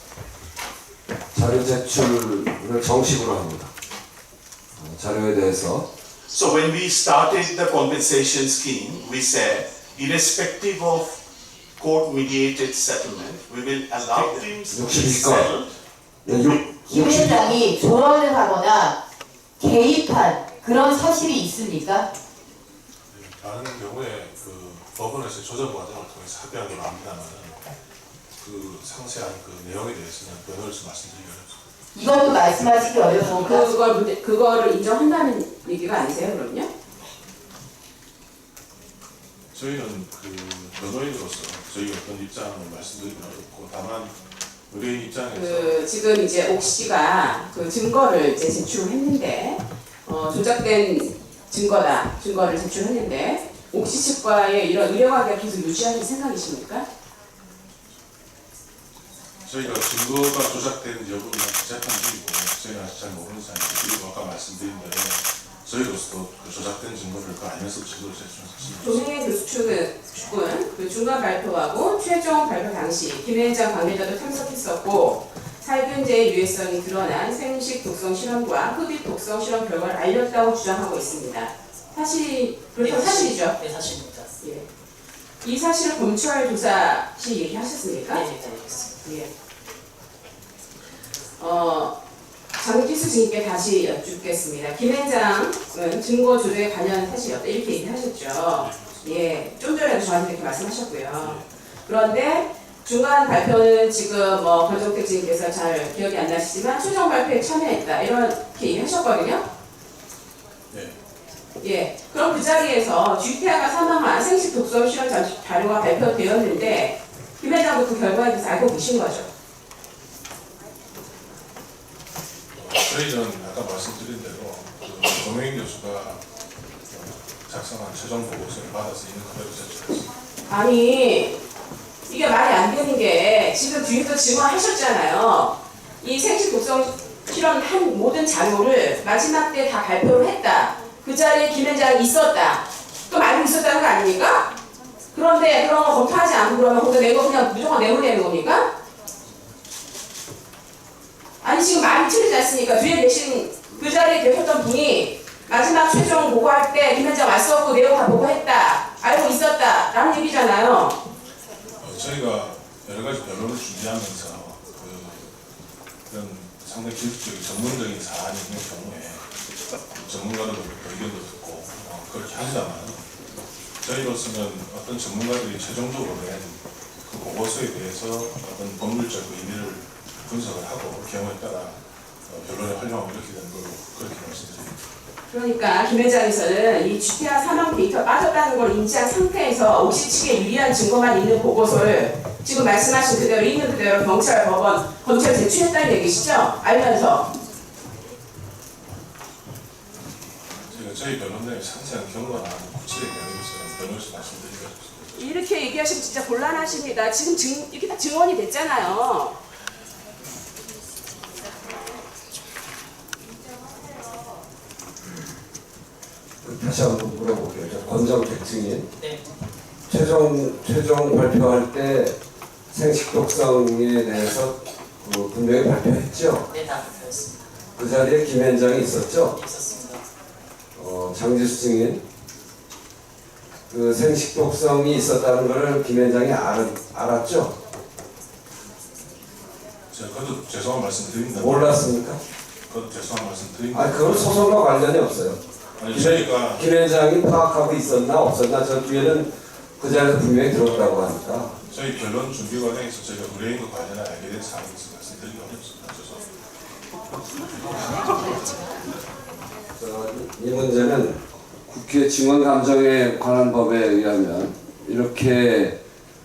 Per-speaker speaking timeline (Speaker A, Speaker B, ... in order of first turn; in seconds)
Speaker A: 1.3-3.7, 4.8-5.8, 14.7-15.5, 16.2-17.6, 216.4-218.9, 219.9-222.1, 222.7-226.5, 227.8-229.3, 230.8-232.0, 233.7-237.5, 241.3-242.2, 243.7-251.5, 259.8-265.8
Speaker B: 6.3-11.2, 11.8-15.7, 16.3-17.4
Speaker C: 16.9-19.0, 19.6-22.1, 31.9-33.7
Speaker D: 23.1-27.6, 28.4-31.6, 39.5-44.2, 44.7-45.9, 59.4-69.0, 122.5-126.2, 126.9-130.1, 161.8-165.3, 166.1-169.2, 170.0-173.1, 173.8-184.8, 200.7-205.3, 239.9-242.0, 242.7-244.6, 245.8-246.6, 251.7-256.3, 257.6-258.4
Speaker E: 33.4-36.7, 45.3-56.8, 68.8-83.5, 84.4-84.7, 85.4-88.2, 91.4-91.9, 92.6-109.4, 111.6-119.2, 130.5-131.3, 132.1-144.5, 145.1-148.6, 151.4-161.0, 185.3-197.3, 205.2-209.3
Speaker F: 82.8-84.3, 88.1-88.9, 226.5-227.4, 229.3-230.0